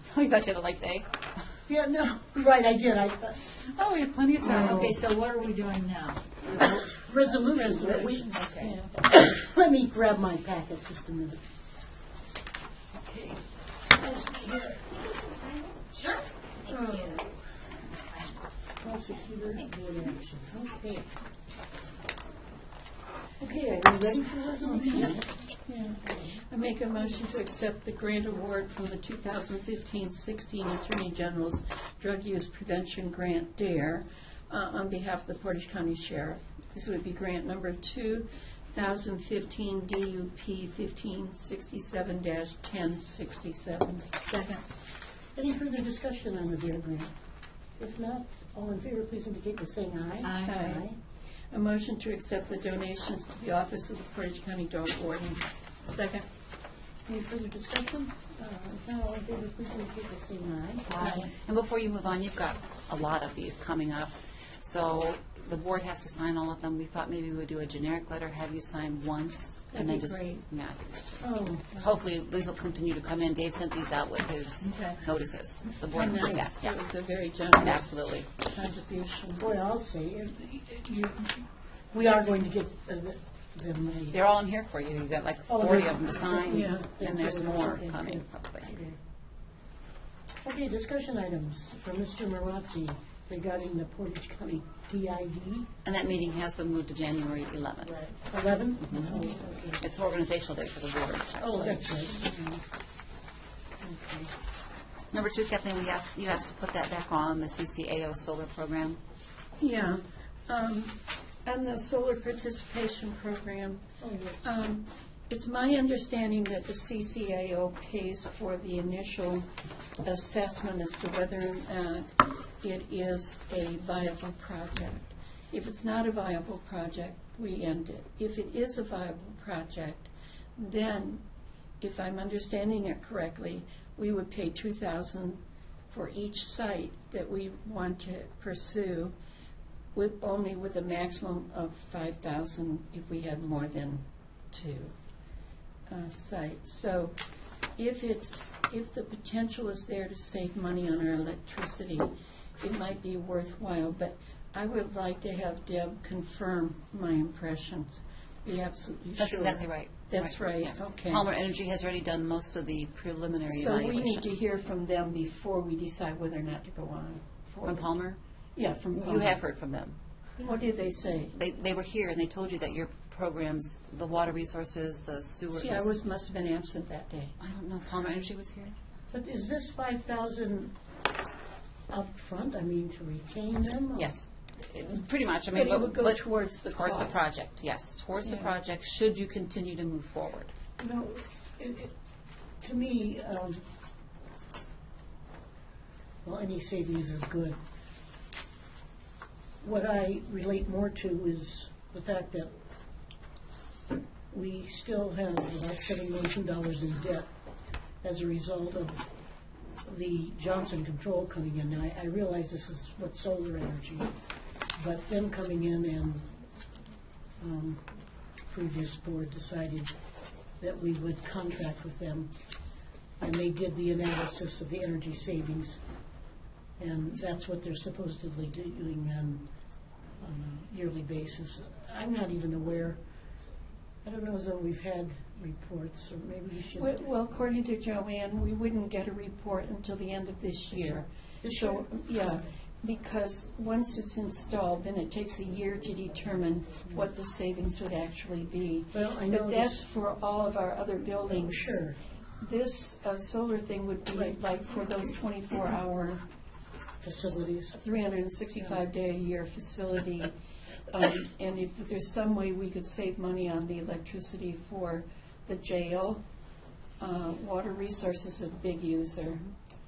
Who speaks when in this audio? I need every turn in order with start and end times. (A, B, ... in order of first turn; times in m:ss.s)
0:00.1-0:01.1 A
0:01.7-0:03.5 B
0:03.6-0:04.9 A
0:04.4-0:05.0 B
0:04.4-0:06.4 C
0:06.5-0:11.4 B
0:07.5-0:08.9 D
0:13.9-0:15.0 B
0:18.8-0:21.1 B
0:23.4-0:25.3 B
0:25.6-0:44.1 D
0:44.2-0:44.6 C
0:45.3-0:47.1 B
0:47.8-0:51.0 B
0:50.2-0:50.8 C
0:50.4-0:50.8 D
0:51.5-0:56.2 D
0:57.1-1:01.3 B
1:00.9-1:10.9 A
1:09.7-1:10.4 D
1:11.2-1:11.9 B
1:11.8-1:16.7 A
1:14.6-1:15.0 C
1:15.9-1:17.9 D
1:17.5-1:18.3 A
1:18.4-1:19.5 D
1:19.4-1:24.2 B
1:24.1-1:28.7 A
1:25.5-1:29.0 B
1:26.5-1:26.9 D
1:30.4-1:35.7 B
1:35.8-1:38.0 A
1:38.1-1:39.8 B
1:38.8-1:41.8 A
1:41.4-1:42.3 B
1:43.8-1:44.3 B
1:45.1-1:49.0 A
1:49.6-1:53.8 D
1:54.0-1:54.4 B
1:54.4-1:59.5 D
2:00.0-2:11.2 D
2:11.8-2:19.1 D
2:19.9-2:24.9 D
2:25.9-2:27.2 D
2:27.8-2:41.2 D
2:39.2-2:44.3 A
2:43.5-2:47.9 D
2:47.6-2:48.2 A
2:48.6-2:49.4 D
2:48.9-2:50.0 A
2:50.4-2:51.3 D
2:51.3-2:55.9 A
2:55.5-2:57.3 D
2:57.4-2:58.7 A
2:59.1-3:00.7 B
3:01.9-3:04.1 B
3:04.0-3:06.2 A
3:05.5-3:07.3 D
3:06.7-3:10.5 A
3:10.8-3:11.9 B
3:12.6-3:13.6 B
3:16.2-3:17.6 B
3:19.6-3:22.5 B
3:24.3-3:27.3 B
3:28.0-3:29.0 B
3:29.8-3:34.2 B
3:34.8-3:36.2 B
3:37.4-3:37.8 B
3:38.5-3:39.9 B
3:40.6-3:42.3 B
3:43.2-3:45.8 B
3:46.8-3:49.5 B
3:50.2-3:53.0 B
3:54.0-3:56.9 B
3:56.8-4:11.8 D
4:00.7-4:01.8 B
4:08.9-4:09.8 B
4:11.5-4:12.0 B
4:12.4-4:16.2 D
4:17.0-4:17.7 B
4:17.7-4:20.3 D
4:20.9-4:26.2 D
4:27.0-4:29.4 D